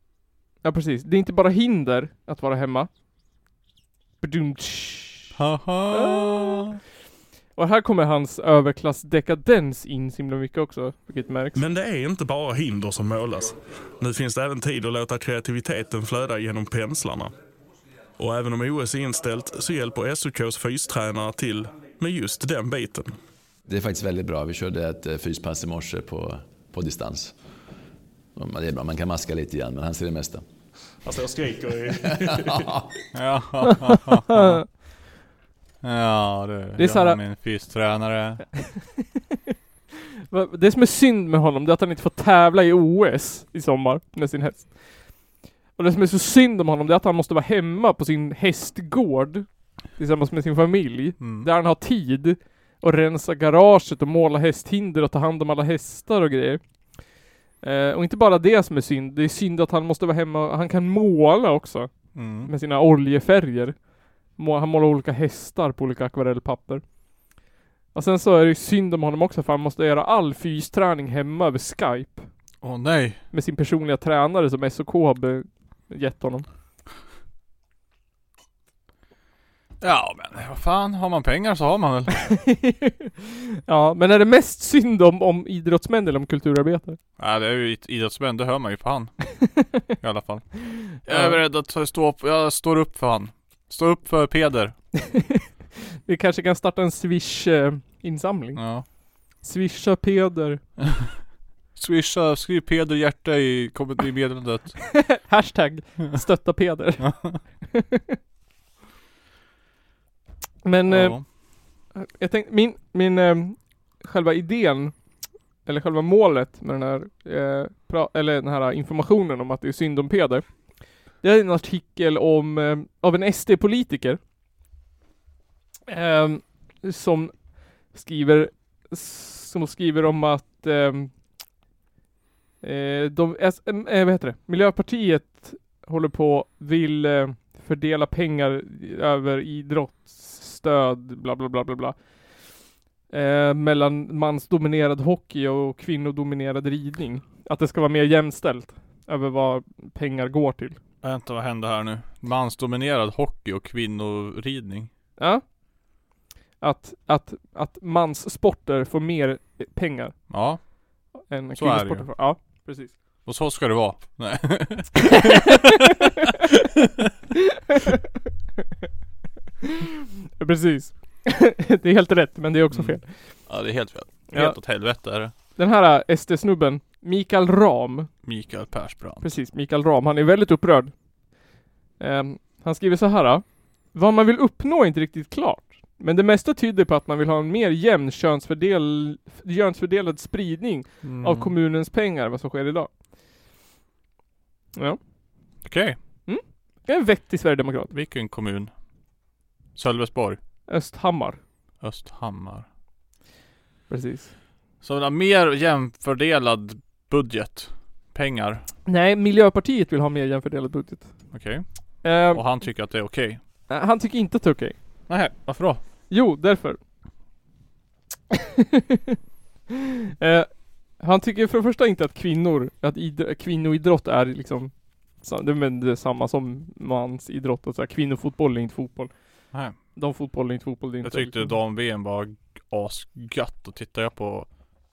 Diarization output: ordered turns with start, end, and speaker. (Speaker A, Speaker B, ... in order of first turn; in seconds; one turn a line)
Speaker A: 0.6-2.9
Speaker A: 4.2-5.3
Speaker B: 5.3-6.8
Speaker A: 5.9-6.7
Speaker A: 7.5-11.6
Speaker C: 11.6-17.4
Speaker C: 18.2-23.2
Speaker D: 23.7-27.3
Speaker D: 28.3-30.4
Speaker C: 31.0-32.7
Speaker D: 32.4-32.8
Speaker B: 33.1-34.6
Speaker A: 34.3-34.6
Speaker B: 35.8-38.5
Speaker A: 36.8-37.2
Speaker A: 38.8-39.0
Speaker A: 40.3-45.1
Speaker A: 45.8-56.6
Speaker B: 51.2-51.5
Speaker A: 57.6-63.8
Speaker B: 62.1-62.5
Speaker A: 64.3-66.8
Speaker A: 67.9-72.3
Speaker B: 72.6-73.2
Speaker A: 73.3-76.5
Speaker B: 79.8-82.3
Speaker A: 82.4-83.1
Speaker A: 83.7-87.0
Speaker B: 87.2-94.8
Speaker A: 91.1-91.4
Speaker A: 95.1-95.4
Speaker A: 96.0-98.9
Speaker B: 98.5-98.8
Speaker A: 99.4-100.6
Speaker B: 101.7-105.0
Speaker A: 104.9-108.1
Speaker B: 107.0-107.4
Speaker A: 110.6-114.9
Speaker B: 110.9-111.2
Speaker A: 115.6-120.6
Speaker A: 121.2-124.2
Speaker A: 125.9-127.3
Speaker A: 127.9-131.1
Speaker A: 132.6-142.0
Speaker A: 143.1-150.8
Speaker B: 151.0-154.9
Speaker A: 155.2-155.4
Speaker A: 156.6-160.3
Speaker B: 160.3-160.6
Speaker A: 161.3-162.9
Speaker B: 161.5-162.1
Speaker B: 163.2-165.7
Speaker A: 170.4-173.1
Speaker B: 172.7-175.3
Speaker A: 174.3-174.6
Speaker A: 175.6-178.1
Speaker B: 178.2-179.3
Speaker A: 179.2-180.9
Speaker A: 182.0-192.9
Speaker B: 191.0-191.5
Speaker B: 195.6-196.0
Speaker A: 196.3-197.9
Speaker B: 197.9-198.7
Speaker B: 199.7-200.4
Speaker A: 200.7-201.4
Speaker B: 201.8-202.6
Speaker A: 203.9-204.3
Speaker B: 204.8-208.6
Speaker A: 208.9-211.1
Speaker B: 211.3-213.4
Speaker A: 212.0-212.4
Speaker A: 213.7-214.7
Speaker B: 215.1-215.8
Speaker A: 216.1-216.8
Speaker A: 220.2-229.1
Speaker A: 229.9-231.5
Speaker B: 231.0-234.5